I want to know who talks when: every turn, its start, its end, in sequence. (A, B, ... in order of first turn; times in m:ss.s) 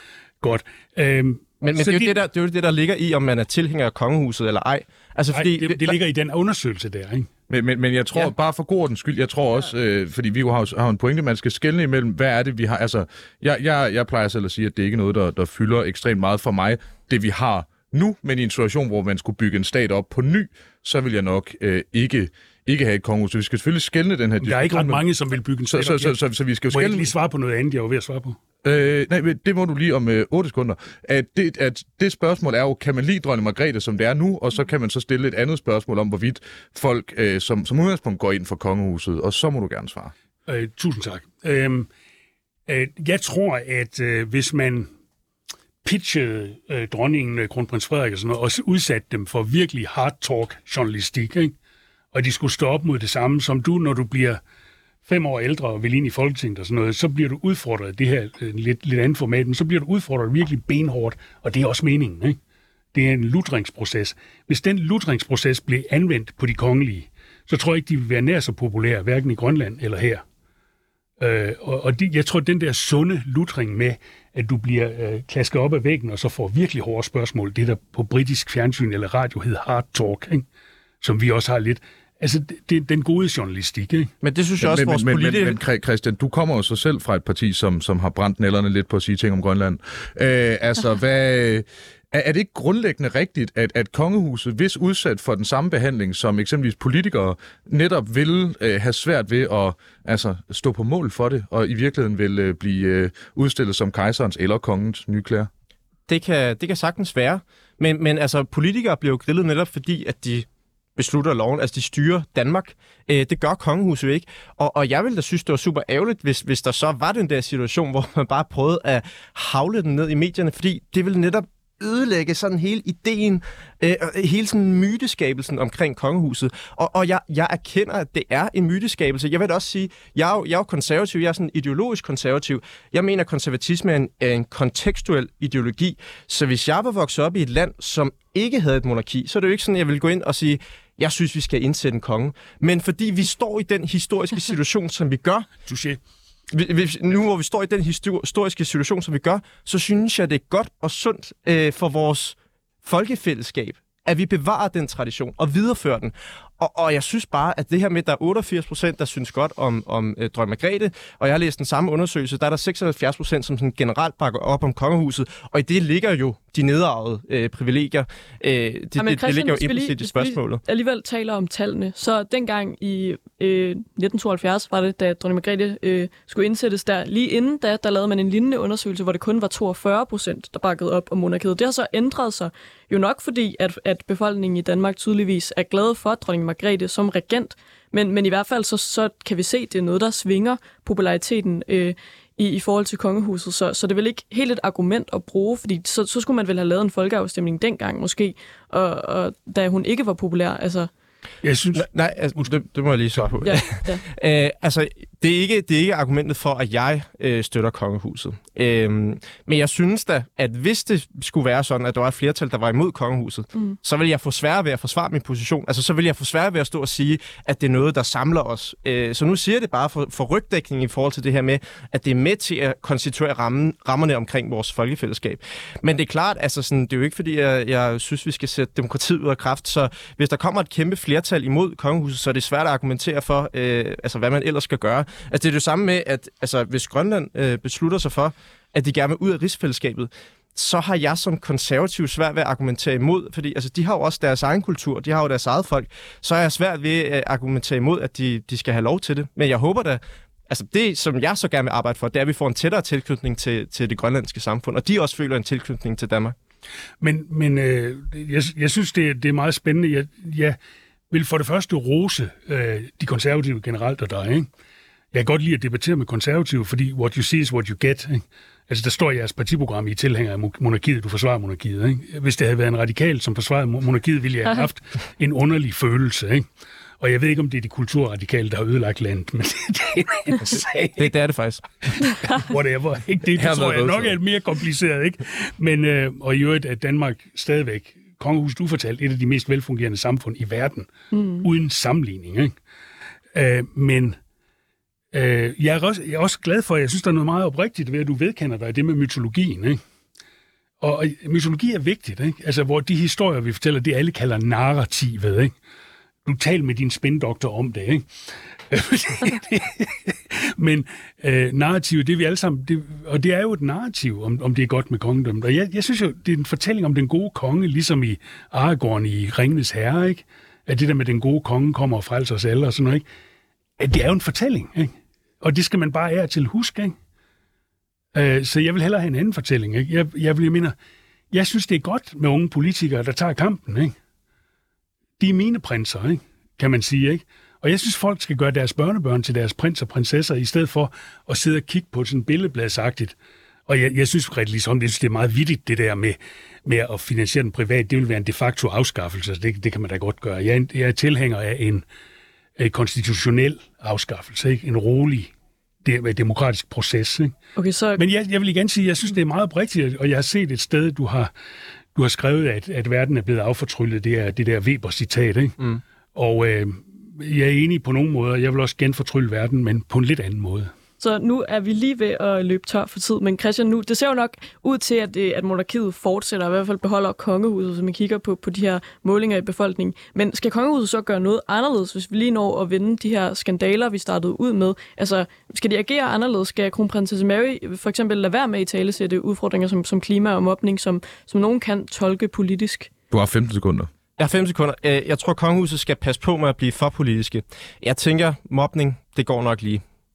0:00.4-0:02.2 A
0:01.6-0:06.0 B
0:05.3-0:07.3 A
0:07.5-0:25.0 C
0:24.4-0:26.2 A
0:25.7-0:27.1 C
0:26.7-0:28.4 A
0:28.6-0:40.1 C
0:40.5-0:41.9 A
0:42.7-0:44.9 A
0:45.8-0:51.5 A
0:52.1-0:54.4 A
0:55.0-1:02.4 A
1:02.9-1:10.2 A
1:11.2-1:20.4 A
1:21.0-1:24.1 A
1:24.2-1:25.6 B
1:24.6-1:45.5 C
1:46.1-2:25.5 B
2:25.7-2:26.0 A
2:26.5-2:50.6 B
2:49.0-3:20.9 D
3:21.4-3:22.5 A
3:21.7-4:16.3 B
3:23.4-3:24.0 D
4:17.0-4:20.6 A
4:21.1-4:24.5 A
4:25.1-4:36.4 A
4:37.0-4:41.1 A
4:40.5-4:42.1 B
4:42.1-4:50.9 A
4:43.3-4:44.2 C
4:51.1-4:51.4 D
4:51.4-4:52.5 A
4:53.3-4:54.2 A
4:55.1-4:59.8 A
5:00.8-5:05.5 A
5:06.2-5:08.0 A
5:08.7-5:23.0 A
5:23.8-5:26.9 A
5:28.1-5:30.7 A
5:31.3-5:33.9 A
5:35.2-5:43.1 A
5:43.7-5:51.8 A
5:52.6-5:55.3 A
5:55.8-5:57.3 A
5:57.6-5:58.0 D
5:58.0-6:01.3 A
6:01.9-6:05.6 A
6:06.1-6:10.7 A
6:11.0-6:32.9 D
6:33.1-6:33.9 C
6:34.2-6:39.8 B